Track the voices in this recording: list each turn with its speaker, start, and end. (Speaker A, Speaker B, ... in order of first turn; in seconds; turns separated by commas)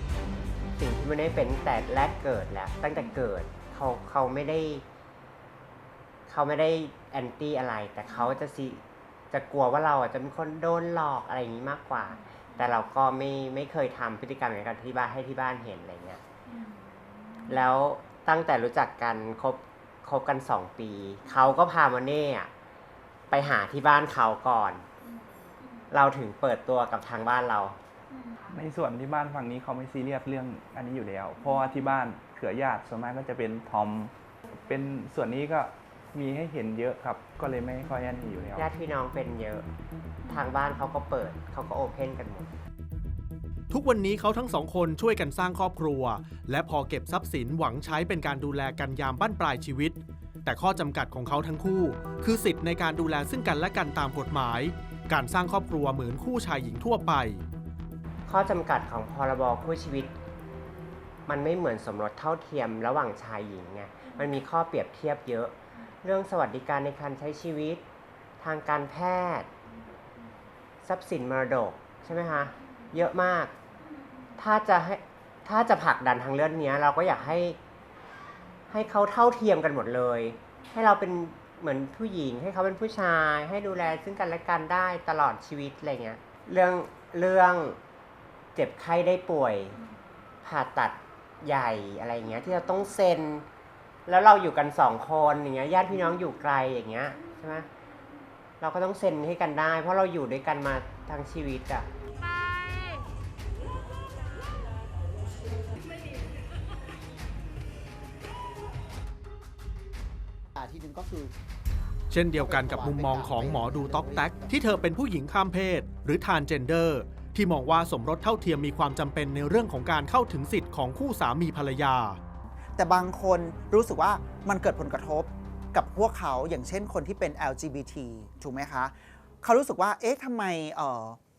Speaker A: 0.8-4.8, Speaker A: 6.3-16.2, Speaker A: 17.5-22.5, Speaker A: 23.3-24.9, Speaker A: 25.9-27.8, Speaker B: 28.5-38.7, Speaker A: 38.5-39.6, Speaker A: 40.3-42.5, Speaker C: 43.7-57.4, Speaker A: 58.2-60.1, Speaker A: 61.3-67.8, Speaker A: 68.4-69.5, Speaker A: 70.8-73.5, Speaker A: 74.4-77.6, Speaker A: 78.7-87.8, Speaker A: 88.5-89.8, Speaker A: 90.4-93.5, Speaker A: 94.0-97.7, Speaker A: 98.6-101.9, Speaker D: 110.5-111.3, Speaker C: 112.1-122.2, Speaker D: 112.3-114.5, Speaker D: 122.8-131.2